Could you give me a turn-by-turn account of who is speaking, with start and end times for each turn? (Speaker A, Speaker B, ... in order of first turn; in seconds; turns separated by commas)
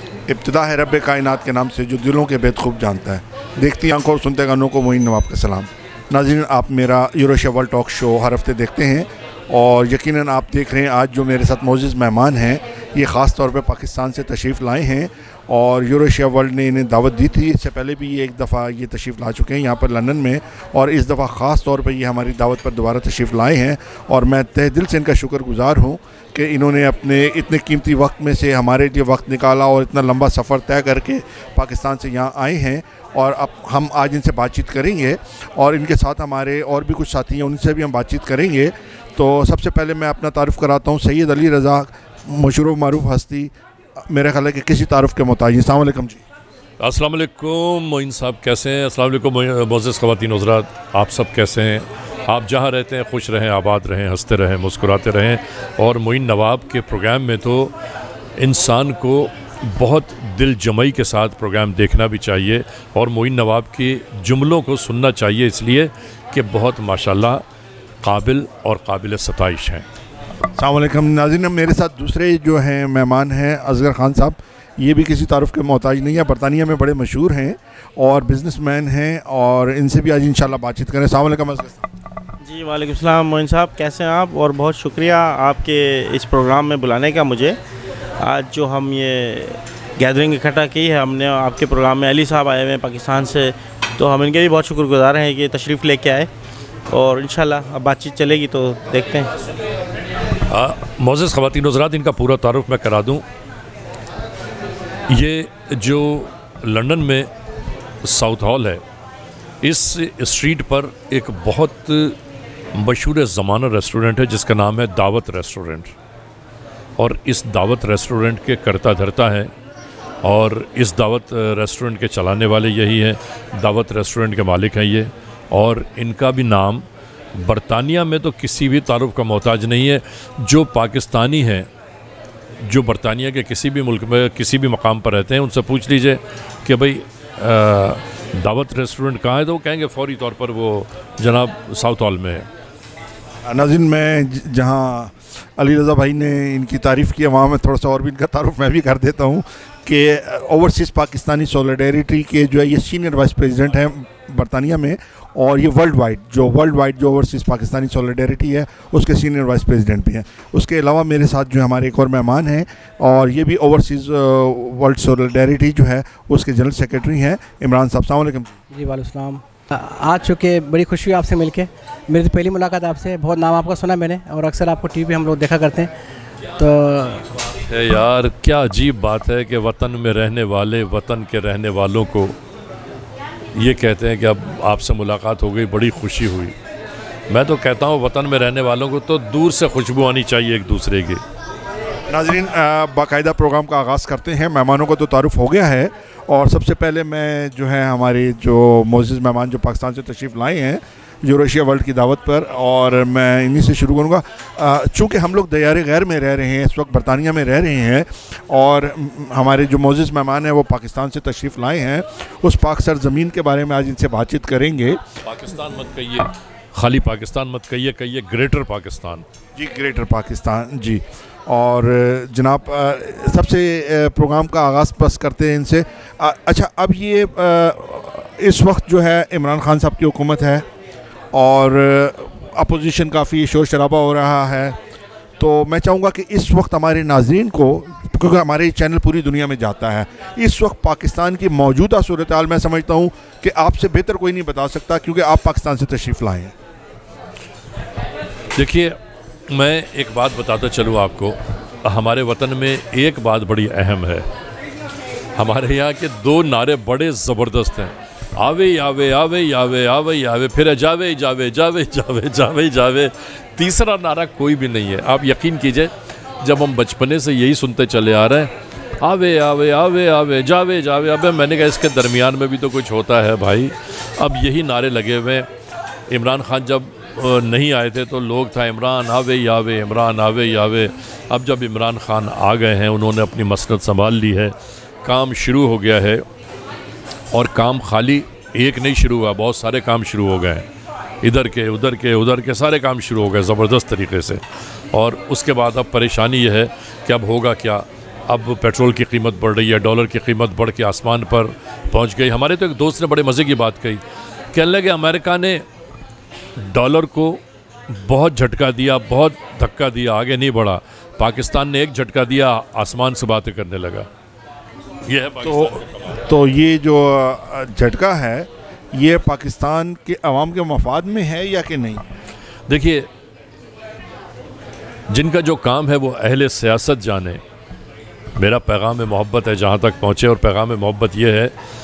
Speaker A: 0.3-43.5, Speaker A: 44.0-46.2, Speaker B: 46.8-57.7, Speaker B: 58.4-67.4, Speaker B: 68.0-69.8, Speaker A: 70.6-81.8, Speaker C: 82.4-87.6, Speaker C: 88.2-96.3, Speaker C: 96.9-99.3, Speaker B: 100.4-103.2, Speaker B: 105.1-107.3, Speaker B: 108.0-108.8, Speaker B: 109.6-112.2, Speaker B: 112.7-115.9, Speaker B: 117.0-119.5, Speaker B: 120.2-131.7, Speaker B: 132.6-142.5, Speaker A: 143.4-168.6, Speaker D: 168.7-175.9, Speaker D: 176.6-177.2, Speaker B: 177.7-182.3, Speaker B: 183.5-186.5, Speaker B: 187.3-191.2, Speaker A: 192.1-215.0, Speaker B: 215.2-219.2, Speaker A: 219.6-230.7, Speaker A: 231.3-234.8, Speaker A: 235.4-246.5, Speaker B: 248.5-249.0, Speaker B: 249.5-254.3, Speaker B: 255.3-275.5, Speaker B: 276.1-286.2, Speaker B: 287.3-290.6, Speaker B: 291.2-294.4, Speaker B: 294.9-304.0, Speaker B: 304.5-305.6, Speaker B: 306.6-314.1, Speaker B: 315.0-316.0, Speaker A: 315.4-322.0, Speaker B: 322.7-323.1, Speaker B: 325.1-327.4, Speaker B: 328.4-331.5